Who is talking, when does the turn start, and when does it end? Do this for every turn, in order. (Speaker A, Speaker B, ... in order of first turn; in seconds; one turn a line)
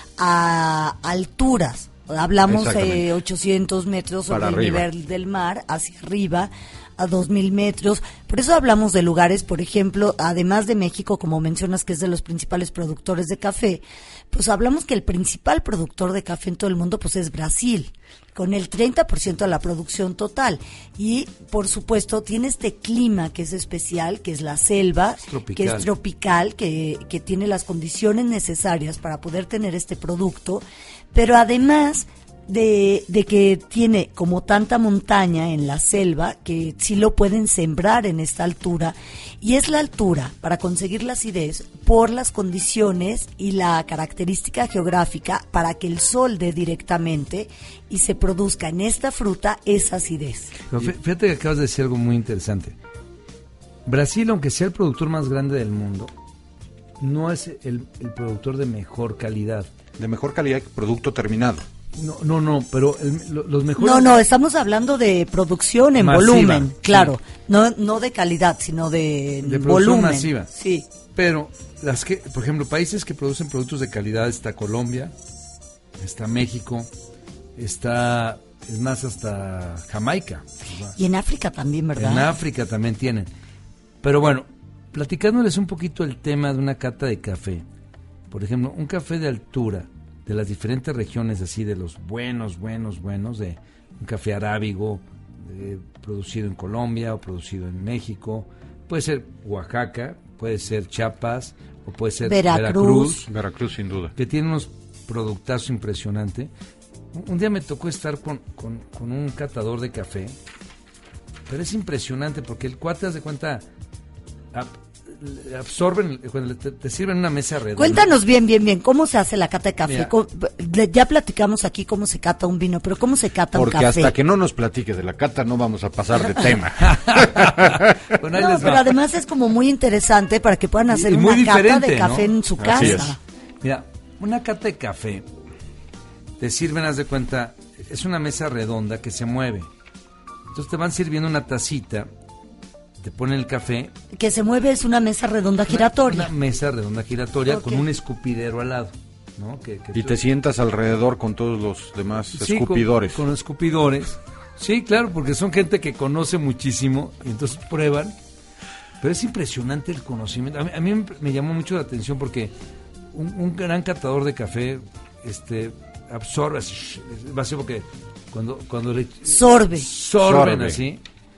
Speaker A: 0.2-50.5
Speaker B: 2.4-3.1
Speaker B: 4.3-4.9
Speaker C: 25.2-25.9
Speaker C: 50.7-52.8
Speaker C: 53.9-56.1
Speaker C: 57.0-59.7
Speaker B: 60.0-61.6
Speaker C: 62.0-64.1
Speaker A: 63.8-70.8
Speaker C: 66.0-67.1
Speaker C: 69.4-70.5
Speaker C: 71.1-75.1
Speaker C: 76.0-76.9
Speaker C: 77.5-81.0
Speaker A: 81.0-82.3
Speaker C: 82.0-83.3
Speaker C: 84.0-87.6
Speaker C: 88.3-103.3
Speaker A: 102.2-103.3
Speaker B: 103.3-104.1
Speaker C: 104.2-106.5
Speaker C: 107.1-110.3
Speaker C: 111.5-113.6
Speaker C: 114.5-118.1
Speaker A: 117.8-124.1
Speaker C: 119.8-120.1
Speaker B: 123.5-128.1
Speaker C: 126.8-128.9
Speaker A: 128.3-133.2
Speaker C: 130.9-133.1
Speaker B: 132.6-133.2
Speaker C: 133.6-135.2
Speaker C: 136.4-139.7
Speaker C: 140.5-142.1
Speaker C: 143.0-143.9
Speaker A: 144.1-146.3
Speaker C: 145.7-150.2
Speaker A: 147.5-147.8
Speaker B: 149.9-153.2
Speaker C: 152.4-158.1
Speaker C: 159.0-162.5
Speaker C: 163.1-171.0
Speaker A: 169.3-169.9
Speaker B: 170.2-170.8